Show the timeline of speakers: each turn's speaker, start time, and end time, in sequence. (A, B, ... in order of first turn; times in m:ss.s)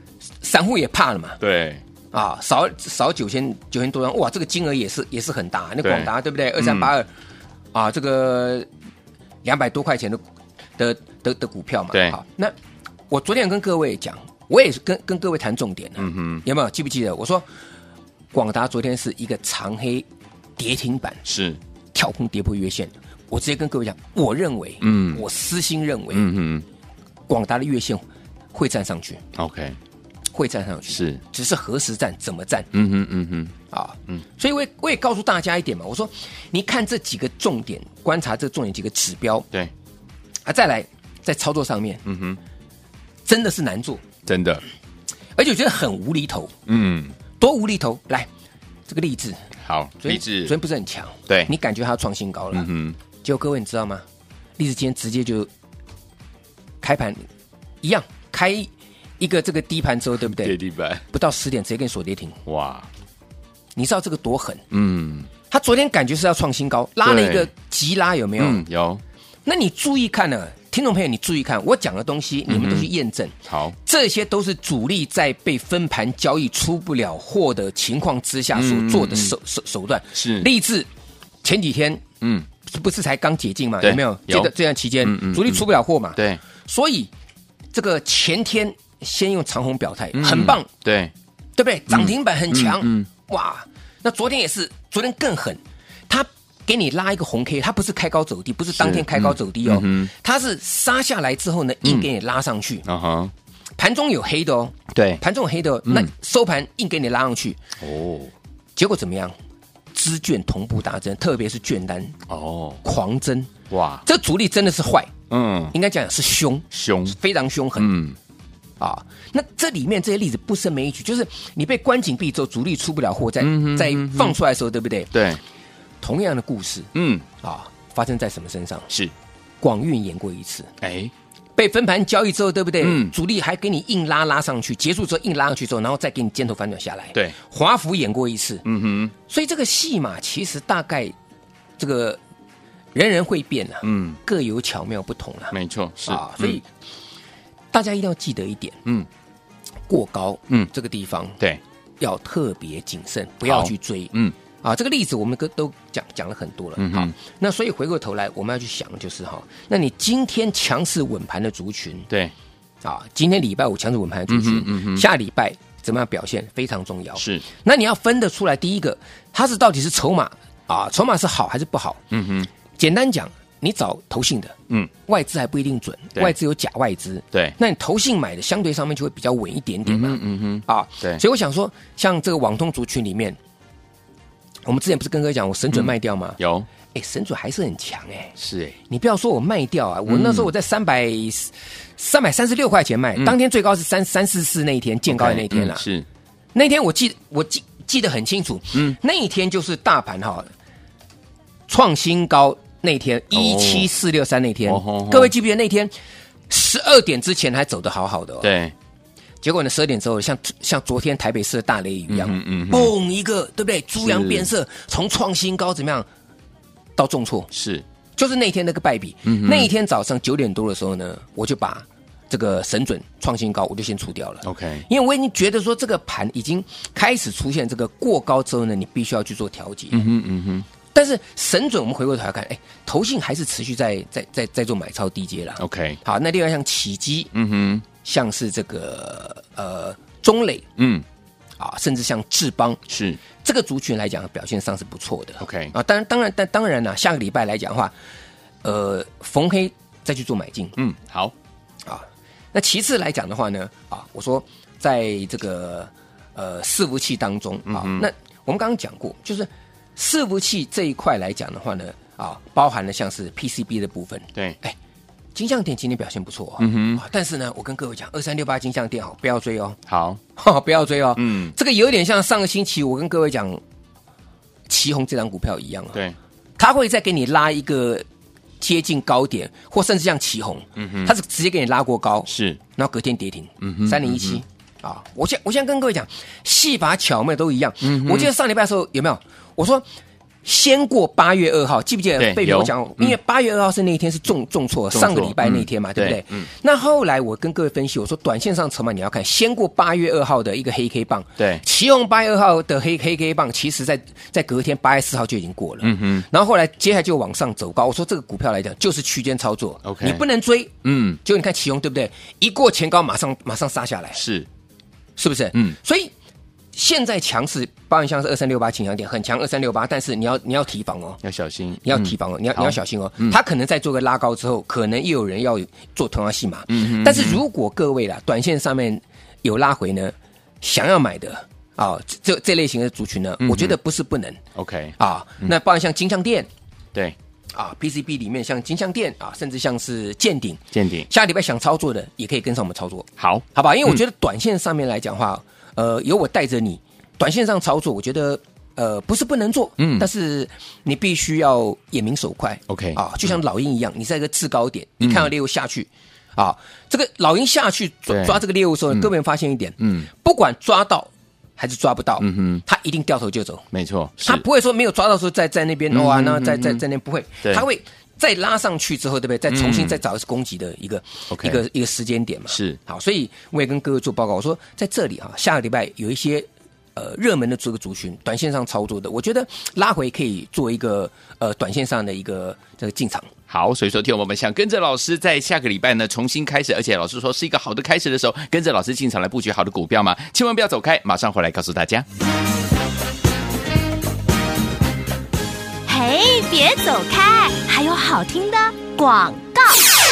0:00.4-0:01.4 A
0:01.4-0:01.8 B
0:02.1-0:07.1 A
0:05.8-0:06.9 B
0:07.7-0:08.7 A
0:09.4-0:10.2 A
0:10.8-0:12.5 A
0:11.9-0:12.2 B
0:13.1-0:17.5 A
0:16.0-0:16.4 B
0:18.3-0:20.1 A
0:20.6-0:21.2 A
0:21.3-0:21.6 B
0:21.9-0:26.3 A
0:24.8-0:25.2 B
0:26.1-0:26.6 B
0:27.3-0:29.2 A
0:29.4-0:29.8 B
0:30.3-0:32.7 A
0:30.9-0:31.2 B
0:32.7-0:33.5 B
0:33.7-0:39.5 A
0:40.5-0:42.0 A
0:42.0-0:42.4 B
0:43.3-0:44.0 A
0:44.3-0:44.6 B
0:45.4-0:46.5 A
0:46.7-0:47.2 B
0:47.4-0:48.3 A
0:48.9-0:49.5 A
0:49.6-0:50.5 B
0:50.0-0:52.7 A
0:52.5-0:53.0 B
0:53.2-0:54.0 A
0:54.6-0:55.5 A
0:56.8-0:57.3 A
0:57.8-1:00.6 A
1:00.3-1:01.0 B
1:01.1-1:02.4 A
1:02.5-1:02.9 B
1:03.8-1:04.6 A
1:04.7-1:05.3 B
1:05.5-1:08.6 A
1:07.0-1:07.5 B
1:08.4-1:09.0 B
1:09.5-1:20.9 A
1:12.5-1:12.9 B
1:13.5-1:13.8 B
1:18.5-1:19.4 B
1:20.2-1:20.5 B
1:21.4-1:22.0 A
1:22.2-1:22.5 B
1:22.7-1:27.1 A
1:23.8-1:26.4 B
1:27.7-1:30.7 A
1:30.1-1:31.1 B
1:31.6-1:42.9 A
1:31.9-1:33.1 B
1:38.7-1:40.1 B
1:42.8-1:43.3 B
1:43.8-1:47.6 A
1:44.9-1:45.2 B
1:47.8-1:48.3 B
1:48.8-1:49.4 A
1:49.9-1:52.2 A
1:52.3-1:52.8 B
1:52.8-1:53.5 A
1:53.7-1:54.0 B
1:54.0-1:55.1 A
1:55.3-1:55.7 B
1:55.7-1:58.0 A
1:56.7-1:57.2 B
1:57.8-1:58.2 B
1:58.8-2:05.1 A
2:03.4-2:04.4 B
2:05.1-2:05.4 B
2:06.0-2:08.9 A
2:07.0-2:07.3 B
2:09.6-2:10.7 A
2:10.8-2:11.1 B
2:11.6-2:18.6 A
2:12.8-2:13.1 B
2:18.6-2:19.1 B
2:19.3-2:21.2 A
2:21.8-2:22.2 A
2:22.9-2:26.7 A
2:23.8-2:24.2 B
2:25.5-2:26.6 B
2:27.7-2:28.8 A
2:29.9-2:31.4 A
2:32.0-2:42.1 A
2:33.4-2:34.4 B
2:36.8-2:37.1 B
2:42.8-2:52.0 A
2:44.3-2:45.1 B
2:47.2-2:47.4 B
2:52.1-2:52.5 B
2:52.8-3:03.4 A
2:59.9-3:01.2 B
3:04.7-3:06.4 A
3:05.7-3:06.7 B
3:06.9-3:08.4 A
3:08.4-3:08.8 B
3:08.9-3:15.9 A
3:10.1-3:10.5 B
3:15.1-3:16.1 B
3:16.6-3:20.5 A
3:21.7-3:25.9 A
3:23.3-3:23.9 B
3:24.7-3:25.3 B
3:26.5-3:28.5 A
3:28.4-3:28.7 B
3:29.4-3:36.1 A
3:32.1-3:32.9 B
3:34.0-3:34.5 B
3:37.0-3:37.5 A
3:37.5-3:37.8 B
3:38.2-3:50.0 A
3:39.2-3:39.7 B
3:44.4-3:44.9 B
3:49.9-3:50.7 B
3:50.9-3:57.3 A
3:55.6-3:56.0 B
3:57.3-3:57.8 B
3:58.0-4:00.7 A
4:00.8-4:01.0 B
4:01.6-4:02.8 A
4:02.9-4:03.2 B
4:03.4-4:07.9 A
4:05.4-4:05.7 B
4:08.6-4:10.8 A
4:10.8-4:11.3 B
4:11.8-4:24.8 A
4:17.7-4:18.1 B
4:25.4-4:29.8 A
4:26.6-4:27.0 B
4:29.9-4:30.2 B
4:30.4-4:33.6 A
4:31.2-4:31.6 B
4:34.7-4:36.0 A
4:36.6-4:38.0 A
4:38.6-4:49.8 A
4:40.8-4:41.1 B
4:42.3-4:42.6 B
4:43.6-4:44.4 B
4:47.8-4:48.3 B
4:50.4-5:14.2 A
4:52.2-4:53.2 B
4:54.9-4:56.5 B
5:01.4-5:01.6 B
5:05.8-5:06.3 B
5:09.8-5:10.2 B
5:10.8-5:11.2 B
5:14.2-5:14.5 B
5:15.2-5:16.1 A
5:16.7-5:21.2 A
5:21.2-5:23.4 B
5:21.8-5:34.4 A
5:26.7-5:27.4 B
5:33.4-5:33.8 B
5:34.6-5:35.5 B
5:35.0-5:36.5 A
5:37.5-6:03.7 A
5:40.7-5:41.1 B
5:43.2-5:44.0 B
5:49.8-5:50.1 B
5:52.7-5:53.3 B
5:55.0-5:55.3 B
5:58.1-5:58.4 B
5:59.8-6:00.1 B
6:02.2-6:02.6 B
6:03.7-6:04.4 B
6:04.2-6:23.3 A
6:05.9-6:06.8 B
6:09.5-6:10.0 B
6:11.3-6:11.6 B
6:12.5-6:12.8 B
6:23.5-6:32.1 B
6:35.9-6:39.8 C